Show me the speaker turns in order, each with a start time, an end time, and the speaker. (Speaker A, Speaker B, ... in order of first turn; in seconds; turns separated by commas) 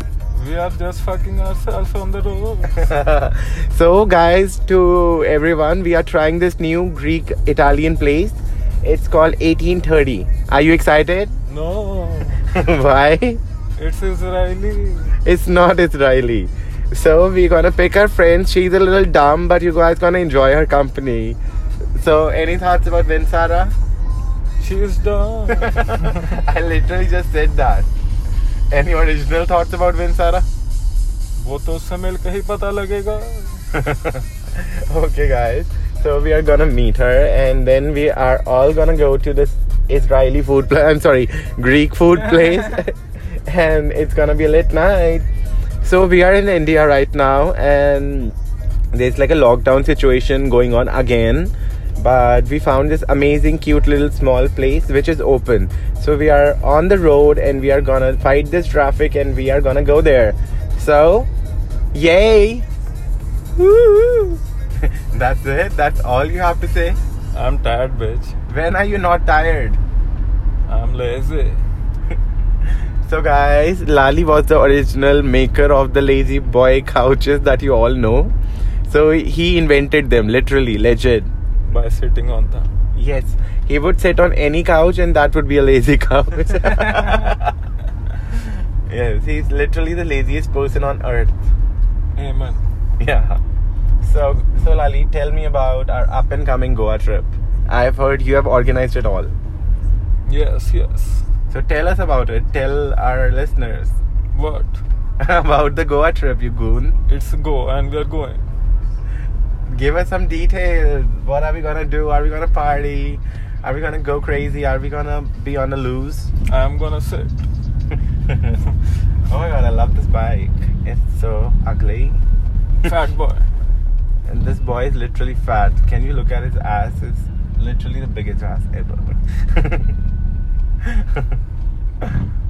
Speaker A: 0.3-2.9, Speaker B: 2.7-11.3, Speaker A: 11.5-12.4, Speaker B: 12.5-13.4, Speaker A: 13.8-15.2, Speaker B: 15.2-21.4, Speaker B: 22.0-23.7, Speaker A: 24.6-26.4, Speaker B: 25.6-27.9, Speaker B: 28.7-30.5, Speaker A: 31.4-33.6, Speaker B: 33.7-45.3, Speaker B: 45.8-48.4, Speaker B: 48.9-61.3, Speaker B: 61.9-62.6, Speaker B: 63.6-67.0, Speaker A: 67.3-68.3, Speaker B: 68.5-69.8, Speaker A: 70.7-71.6, Speaker B: 73.1-78.3, Speaker B: 78.9-81.3, Speaker A: 81.7-82.7, Speaker B: 83.0-87.5, Speaker A: 87.0-87.3, Speaker B: 88.9-91.3, Speaker A: 92.2-92.6, Speaker B: 93.0-93.4, Speaker B: 94.0-99.3, Speaker A: 100.3-101.3, Speaker B: 101.5-104.0, Speaker A: 104.3-104.8, Speaker B: 105.2-107.0, Speaker A: 107.1-108.5, Speaker B: 109.7-116.3, Speaker A: 116.5-117.5, Speaker B: 118.3-118.6, Speaker B: 119.3-122.2, Speaker A: 122.8-123.5, Speaker B: 124.3-129.9, Speaker B: 130.8-131.3